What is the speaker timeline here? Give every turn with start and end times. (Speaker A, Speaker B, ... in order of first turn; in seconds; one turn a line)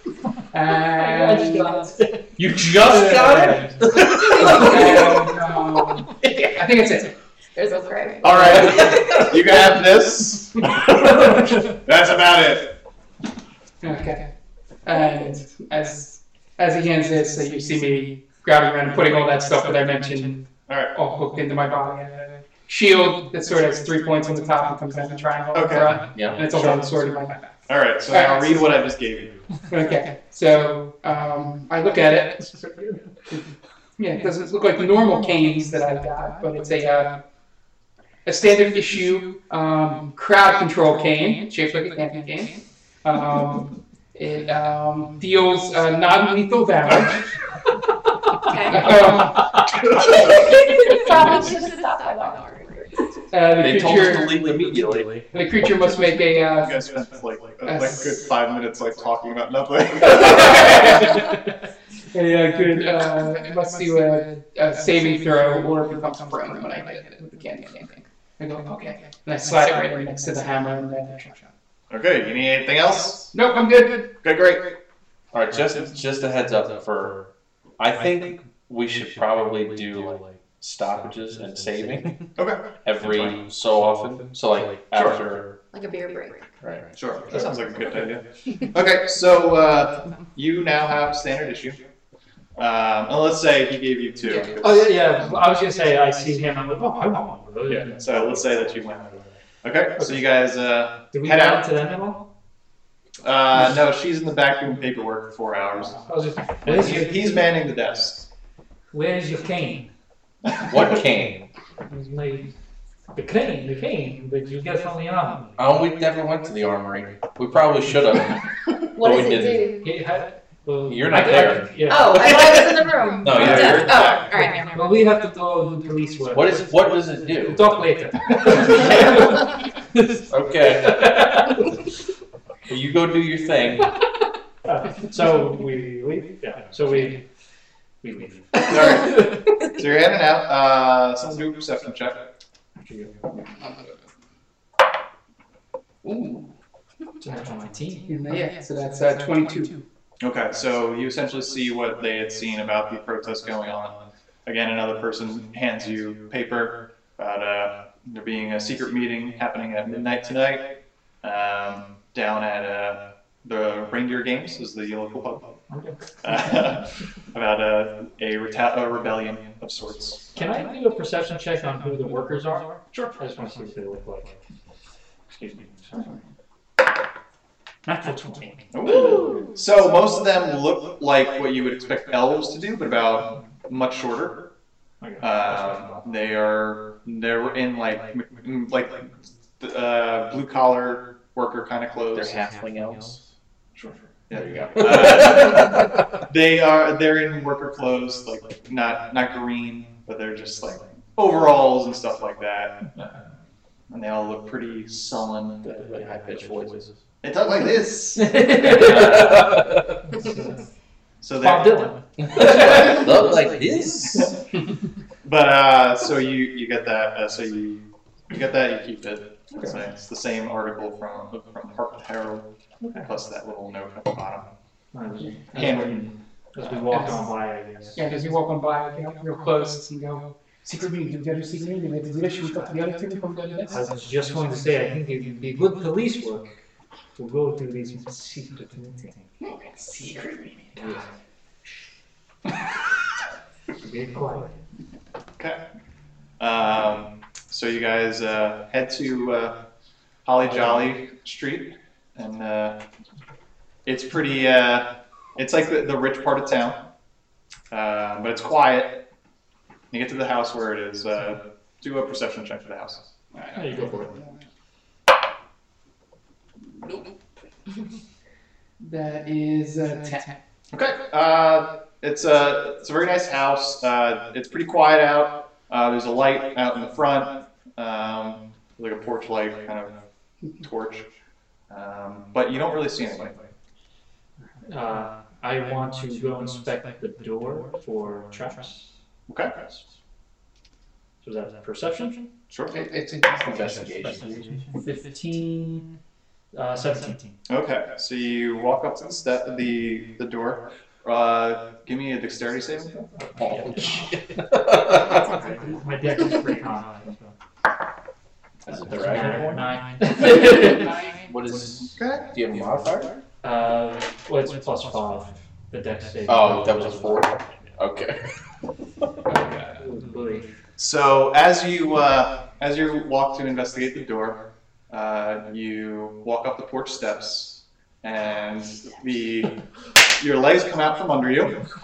Speaker A: 0.5-1.9
Speaker B: 0.9-2.2
Speaker C: 2.4-4.9
Speaker B: 2.8-3.7
Speaker A: 2.9-3.6
Speaker A: 4.3-7.1
Speaker D: 7.5-9.2
Speaker E: 8.2-12.7
Speaker A: 8.3-8.8
Speaker A: 13.8-14.3
Speaker A: 14.8-27.5
Speaker E: 25.5-27.1
Speaker C: 26.1-26.5
Speaker E: 27.7-29.4
Speaker A: 28.1-28.8
Speaker A: 29.7-32.4
Speaker B: 32.4-33.0
Speaker A: 34.0-37.2
Speaker A: 38.2-47.3
Speaker D: 48.4-49.3
Speaker A: 48.6-49.5
Speaker E: 49.7-50.3
Speaker D: 49.9-53.0
Speaker A: 53.3-54.7
Speaker C: 53.5-55.3
Speaker A: 55.3-56.8
Speaker E: 56.5-61.1
Speaker A: 57.6-58.2
Speaker A: 60.0-61.2
Speaker A: 62.1-71.4
Speaker E: 71.9-73.3
Speaker A: 73.3-74.1
Speaker E: 74.2-74.7
Speaker C: 75.3-82.2
Speaker E: 82.3-82.7
Speaker C: 82.8-85.6
Speaker E: 84.9-85.2
Speaker D: 85.7-86.5
Speaker C: 86.6-86.9
Speaker E: 86.9-91.8
Speaker B: 87.3-87.7
Speaker E: 92.5-95.0
Speaker A: 94.2-94.5
Speaker B: 94.6-99.2
Speaker E: 97.7-99.1
Speaker E: 99.6-101.7
Speaker B: 100.0-100.2
Speaker B: 101.1-102.2
Speaker E: 103.2-106.0
Speaker B: 106.1-107.4
Speaker E: 106.6-108.2
Speaker B: 108.9-109.9
Speaker C: 110.7-111.5
Speaker B: 111.9-112.5
Speaker B: 113.1-115.6
Speaker C: 115.6-118.4
Speaker D: 118.9-119.8
Speaker C: 118.9-119.7
Speaker B: 119.8-122.3
Speaker C: 120.8-124.1
Speaker D: 121.8-124.8
Speaker E: 123.3-124.2
Speaker B: 123.4-123.9
Speaker B: 124.4-130.1
Speaker C: 126.3-127.7
Speaker C: 130.3-131.1
Speaker B: 130.8-131.6
Speaker C: 132.7-133.9
Speaker B: 134.7-137.2
Speaker B: 138.0-138.6
Speaker E: 138.7-142.2
Speaker B: 142.8-143.2
Speaker A: 146.0-146.5
Speaker B: 147.2-148.3
Speaker A: 148.1-149.8
Speaker E: 150.2-165.5
Speaker B: 165.7-166.0
Speaker E: 166.2-170.3
Speaker B: 170.3-174.4
Speaker E: 172.9-173.2
Speaker B: 175.3-176.2
Speaker B: 177.8-179.4
Speaker E: 178.7-184.5
Speaker D: 179.0-179.5
Speaker B: 185.0-186.1
Speaker E: 185.2-192.4
Speaker C: 192.1-193.2
Speaker E: 193.8-203.1
Speaker B: 194.3-194.6
Speaker C: 194.8-195.9
Speaker E: 203.9-205.8
Speaker C: 205.6-206.9
Speaker E: 207.2-208.4
Speaker B: 208.2-210.6
Speaker C: 208.6-210.0
Speaker E: 211.2-211.9
Speaker B: 211.4-213.1
Speaker C: 212.2-214.3
Speaker E: 215.2-224.5
Speaker B: 219.5-219.8
Speaker B: 222.8-223.1
Speaker B: 224.9-228.1
Speaker E: 225.5-226.0
Speaker A: 226.9-227.2
Speaker A: 227.9-233.8
Speaker B: 233.7-236.6
Speaker B: 237.2-239.2
Speaker A: 239.4-240.9
Speaker B: 240.8-241.1
Speaker B: 243.8-244.6
Speaker E: 246.4-249.6
Speaker E: 250.2-252.8
Speaker E: 253.8-256.8
Speaker E: 257.7-259.0
Speaker E: 259.9-263.0
Speaker A: 263.3-264.2
Speaker B: 263.5-264.1
Speaker A: 268.8-270.3
Speaker E: 270.7-280.0
Speaker E: 280.6-281.1
Speaker E: 281.7-283.4
Speaker B: 284.6-288.9
Speaker E: 289.3-289.6
Speaker B: 291.2-292.3
Speaker E: 292.5-292.8
Speaker A: 292.7-293.8
Speaker C: 293.4-294.3
Speaker B: 294.0-295.9
Speaker B: 296.5-297.2
Speaker E: 297.5-303.1
Speaker C: 303.4-305.3
Speaker B: 303.5-304.1
Speaker B: 305.1-307.3
Speaker B: 308.7-310.9
Speaker C: 308.7-309.6
Speaker C: 310.4-310.7
Speaker C: 311.2-313.2
Speaker E: 311.9-312.3
Speaker B: 313.4-317.4
Speaker C: 316.2-318.3
Speaker A: 319.3-319.8
Speaker B: 319.8-320.5
Speaker E: 320.8-329.6
Speaker E: 330.1-331.6